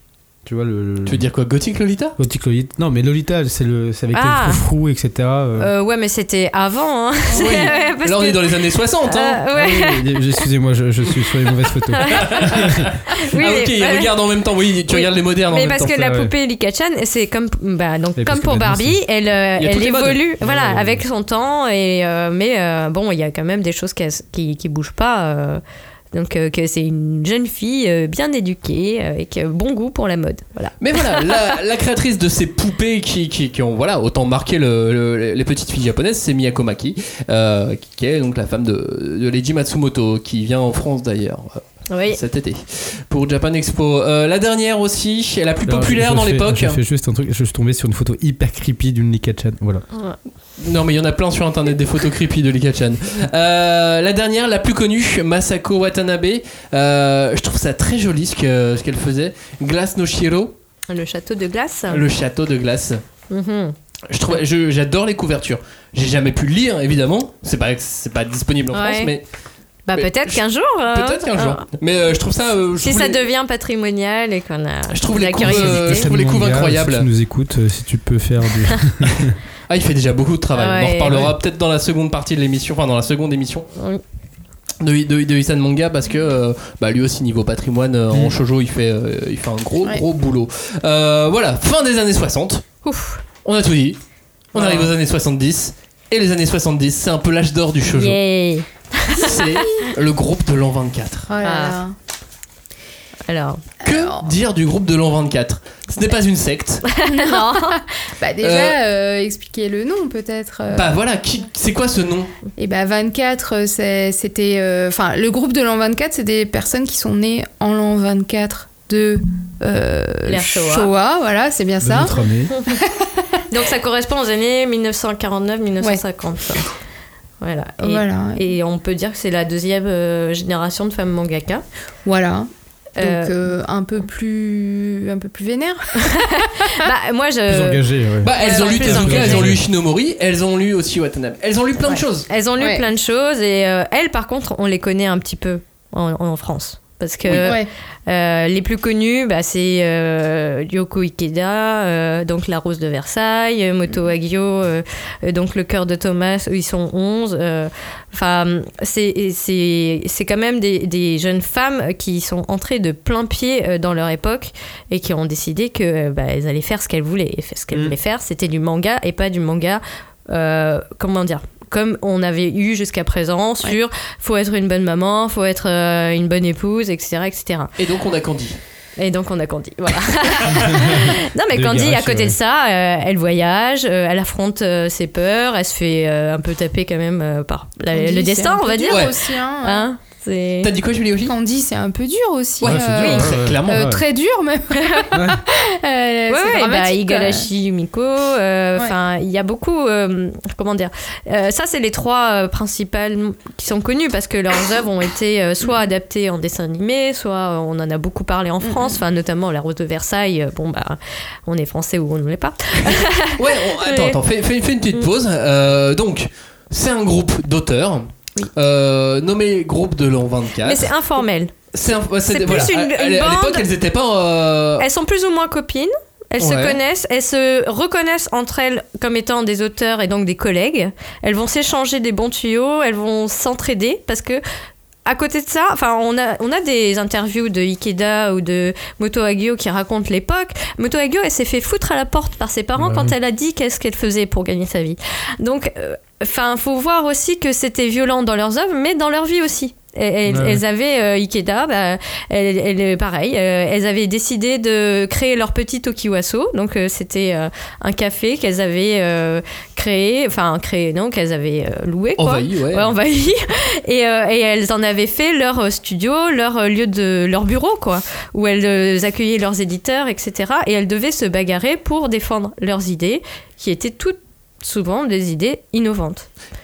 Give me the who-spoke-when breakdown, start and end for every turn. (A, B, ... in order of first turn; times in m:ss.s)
0:00.4-0:01.2 A
0:01.0-0:02.2 B
0:02.2-0:05.7 A
0:04.1-0:04.6 C
0:05.6-0:10.0 C
0:07.3-0:07.9 D
0:07.3-0:09.4 B
0:09.5-0:12.9 A
0:11.9-0:12.6 C
0:12.2-0:15.9 B
0:13.1-0:14.1 C
0:14.9-0:25.6 C
0:15.9-0:16.3 A
0:18.2-0:19.0 A
0:19.6-0:20.2 B
0:20.4-0:21.0 A
0:26.1-0:31.4 C
0:30.8-0:46.8 B
0:41.9-0:42.2 C
0:45.6-0:49.8 A
0:50.6-1:00.5 B
1:00.9-1:02.0 C
1:01.9-1:03.0 B
1:03.3-1:03.8 C
1:04.1-1:09.2 B
1:08.7-1:09.1 C
1:09.9-1:11.6 C
1:09.9-1:13.2 B
1:12.8-1:16.1 C
1:14.9-1:17.1 B
1:15.4-1:19.4 A
1:19.7-1:23.7 B
1:20.5-1:21.3 C
1:24.8-1:32.6 B
1:32.8-1:33.2 C
1:33.4-1:34.0 B
1:34.5-1:38.2 B
1:34.5-1:34.9 C
1:37.9-1:39.6 C
1:39.2-1:41.3 B
1:41.3-1:41.9 D
1:41.4-1:41.8 C
1:43.3-1:43.6 C
1:43.8-1:44.3 D
1:43.8-1:46.8 B
1:47.0-1:47.8 C
1:47.0-1:50.9 D
1:48.4-1:48.8 B
1:50.7-1:52.3 B
1:52.6-2:02.1 D
2:00.2-2:00.9 C
2:01.8-2:02.5 A
2:02.5-2:02.8 C
2:02.7-2:03.4 D
2:03.5-2:06.7 C
2:07.4-2:11.6 C
2:07.8-2:08.5 D
2:12.0-2:16.7 D
2:13.0-2:13.3 C
2:16.0-2:17.8 C
2:17.5-2:19.6 A
2:18.2-2:22.3 B
2:18.3-2:19.5 C
2:18.4-2:18.7 D
2:22.3-2:57.7 C
2:22.6-2:22.8 D
2:27.2-2:27.5 B
2:27.4-2:27.7 D
2:57.8-2:58.6 B
2:59.0-3:09.1 C
3:00.6-3:02.4 A
3:07.9-3:09.9 D
3:08.9-3:09.1 B
3:09.6-3:10.7 C
3:10.6-3:11.3 B
3:11.2-3:17.5 D
3:12.6-3:13.9 B
3:12.6-3:14.0 A
3:14.8-3:15.1 C
3:15.1-3:15.4 A
3:16.3-3:34.2 C
3:28.6-3:29.0 D
3:33.3-3:40.9 B
3:40.6-3:41.6 C
3:41.7-3:44.8 B
3:42.3-3:43.7 C
3:44.8-3:54.4 C
3:46.4-3:46.8 B
3:55.0-4:36.3 C
4:02.8-4:03.1 A
4:10.3-4:10.6 A
4:22.2-4:22.9 B